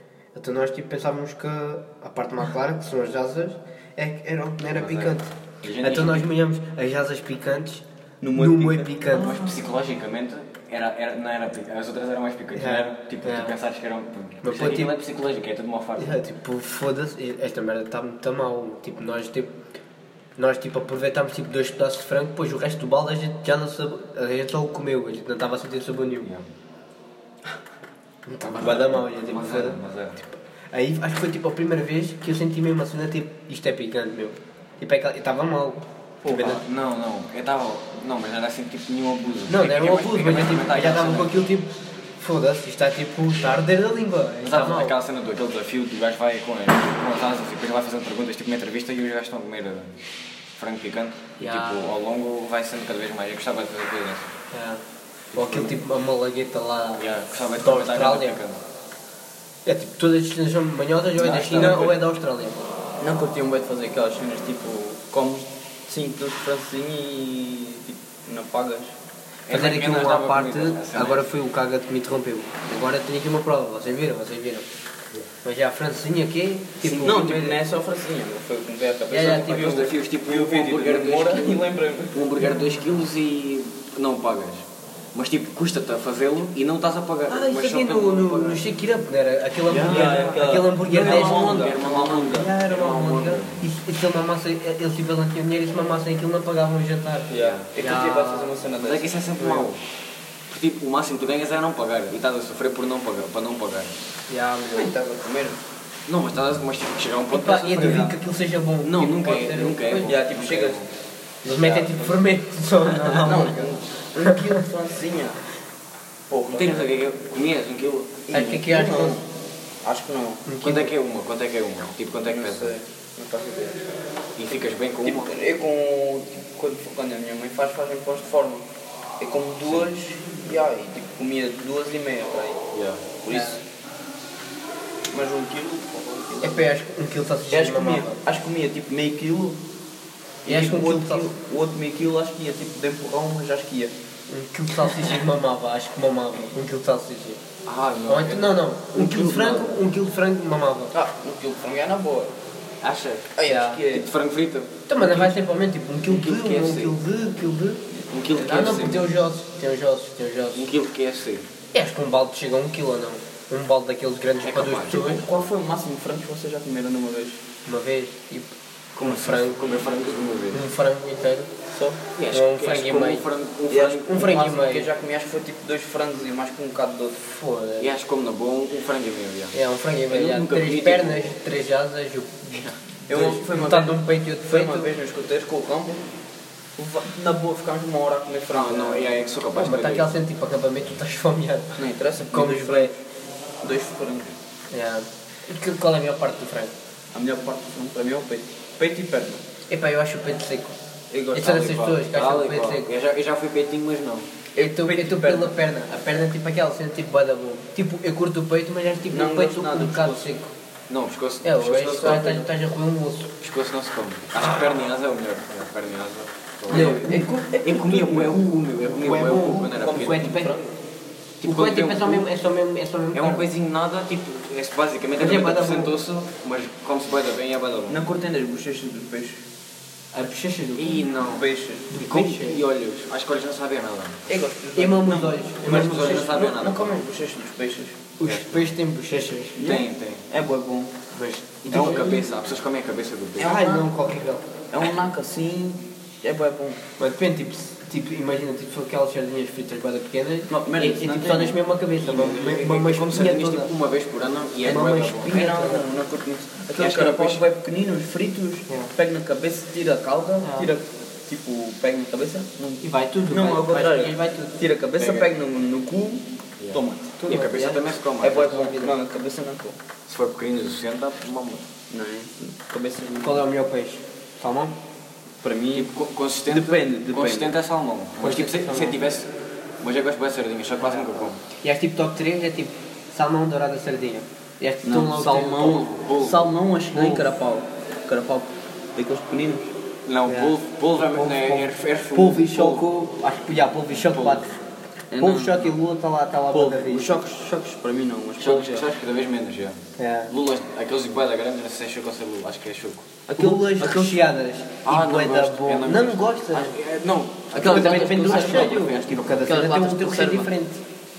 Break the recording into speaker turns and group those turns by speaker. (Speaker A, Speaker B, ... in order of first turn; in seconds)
Speaker A: 0.3-9.4, 12.5-13.6, 14.4-15.0, 16.0-19.6, 20.4-26.3, 28.3-36.6, 39.5-45.0, 51.4-51.9, 54.5-54.8, 55.3-58.4, 59.6-62.6, 69.5-74.7, 75.4-77.6, 79.1-79.9, 87.3-91.7, 92.3-98.5, 99.4-99.7, 104.3-104.9, 107.3-110.1, 111.4-113.5, 114.2-114.6, 118.3-119.2, 120.5-120.9, 133.3-133.6, 136.4-138.2, 140.5-141.3, 144.3-147.4, 148.1-150.9, 153.4-153.8, 154.9-157.8, 158.3-160.7, 161.7-165.2, 167.7-169.6, 170.5-171.5, 172.3-173.2, 174.1-174.9, 177.2-177.9, 179.5-184.9, 189.6-191.8, 192.3-192.9, 194.7-196.7, 199.7-200.8, 201.3-202.9, 204.6-210.5, 211.4-213.3, 216.7-217.5, 219.0-220.7, 221.4-223.5, 225.2-225.9, 230.1-232.6, 234.8-236.3, 238.2-239.6, 241.1-242.2, 243.4-244.4, 247.0-253.7, 254.7-255.8, 260.4-260.7, 262.8-264.6, 267.2-268.9, 273.2-274.8, 278.2-279.0, 281.0-285.9, 286.9-287.3, 290.3-294.6, 295.2-297.1, 300.0-300.3, 303.4-306.8, 307.6-310.8
Speaker B: 4.8-6.3, 9.1-16.2, 28.4-30.2, 36.3-41.4, 44.4-50.0, 50.5-54.3, 55.3-55.8, 57.0-58.6, 61.2-62.0, 69.5-71.3, 79.5-88.6, 89.7-93.6, 97.3-97.7, 98.8-99.8, 100.5-103.9, 106.1-108.1, 108.8-110.9, 112.8-113.7, 116.5-118.3, 120.6-122.8, 124.4-125.3, 129.7-129.9, 132.7-133.0, 147.7-148.5, 152.8-155.3, 156.1-157.0, 158.1-159.1, 160.5-161.5, 164.4-165.4, 169.0-170.6, 172.2-174.3, 177.8-179.6, 180.1-181.3, 182.5-182.8, 188.5-190.1, 201.4-204.3, 210.9-212.4, 213.4-220.4, 221.4-222.3, 223.1-228.1, 230.8-231.3, 232.0-234.2, 235.6-237.1, 238.2-238.7, 239.6-240.2, 241.7-243.6, 252.0-255.4, 256.8-257.4, 265.0-265.3, 266.6-268.5, 270.1-271.7, 275.7-281.4, 285.7-286.5, 290.1-292.9, 294.1-294.4, 298.4-303.1, 303.8-304.2, 304.8-309.6
Speaker C: 8.2-9.0, 36.2-36.6, 63.0-69.0, 76.8-82.3, 89.7-92.5, 97.3-99.1, 104.7-105.6, 109.9-110.8, 111.5-112.2, 113.2-115.4, 116.3-116.8, 118.3-119.3, 119.8-120.5, 122.3-123.8, 125.0-128.7, 129.2-132.7, 133.2-133.6, 135.1-136.7, 137.5-139.6, 140.4-143.9, 149.0-149.8, 150.9-152.3, 153.4-154.1, 164.9-167.4, 171.7-172.0, 173.7-177.2, 183.1-186.0, 186.8-189.2, 191.8-193.0, 193.6-194.3, 197.1-199.4, 201.1-201.8, 204.6-205.5, 209.1-210.2, 212.1-212.4, 216.7-218.4, 220.0-220.6, 227.9-229.4, 231.2-232.0, 234.3-238.0, 239.6-240.9, 241.7-242.2, 243.4-243.9, 244.7-246.8, 250.5-251.6, 255.1-267.2, 268.2-269.8, 271.9-273.4, 275.4-275.9, 276.5-277.5, 284.8-289.7, 295.1-295.7, 296.5-298.9, 303.3-304.1, 307.6-308.9, 309.4-310.5